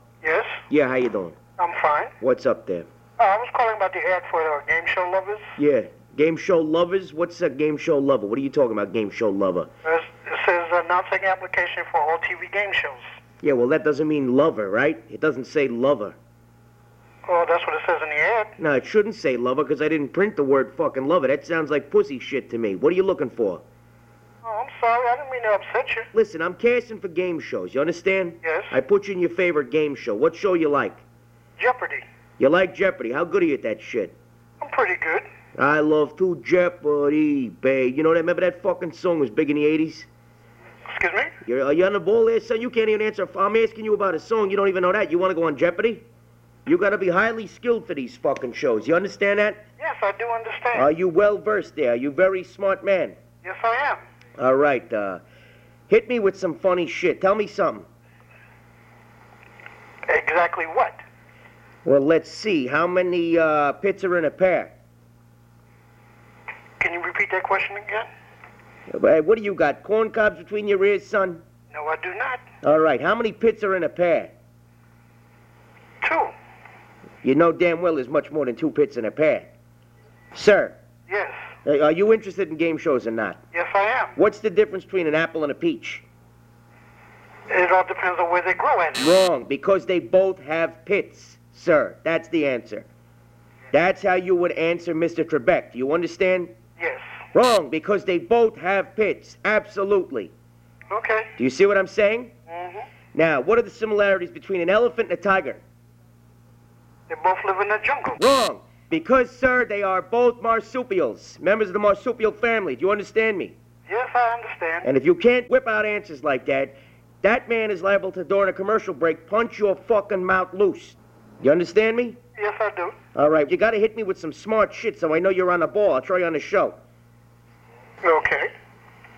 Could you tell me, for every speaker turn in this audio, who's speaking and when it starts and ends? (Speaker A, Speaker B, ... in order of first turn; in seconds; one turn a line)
Speaker A: 0.2-0.6
Speaker B: 0.7-1.4
Speaker A: 1.6-2.1
Speaker B: 2.2-2.9
Speaker A: 3.2-5.5
Speaker B: 5.6-9.7
Speaker A: 9.8-13.0
Speaker B: 13.4-16.2
Speaker A: 17.3-18.6
Speaker B: 18.6-23.6
Speaker A: 24.4-26.1
Speaker B: 26.1-31.0
Speaker A: 28.4-28.8
Speaker A: 31.6-32.0
Speaker B: 32.4-34.1
Speaker A: 34.6-35.3
Speaker B: 35.6-40.1
Speaker A: 40.9-41.3
Speaker B: 41.4-46.0
Speaker B: 46.7-49.6
Speaker A: 49.8-50.9
Speaker B: 50.7-53.2
Speaker A: 53.4-54.0
Speaker B: 54.4-55.2
Speaker B: 55.9-57.9
Speaker A: 60.1-61.0
Speaker B: 61.9-64.7
Speaker A: 66.8-68.1
Speaker B: 68.9-71.4
Speaker A: 71.7-72.4
Speaker B: 72.6-74.3
Speaker A: 76.0-76.3
Speaker B: 77.2-79.5
Speaker B: 80.3-80.8
Speaker A: 81.1-81.4
Speaker B: 81.7-83.4
Speaker A: 83.5-84.1
Speaker B: 84.2-86.0
Speaker A: 87.5-89.1
Speaker B: 89.0-92.9
Speaker B: 93.7-96.5
Speaker A: 96.8-97.0
Speaker B: 97.3-100.3
Speaker A: 100.9-101.3
Speaker B: 101.4-102.3
Speaker A: 102.5-102.9
Speaker B: 103.1-105.6
Speaker A: 107.1-108.2
Speaker B: 108.2-113.5
Speaker A: 113.9-114.9
Speaker B: 114.8-122.2
Speaker A: 122.4-123.0
Speaker B: 123.2-126.8
Speaker A: 128.0-128.5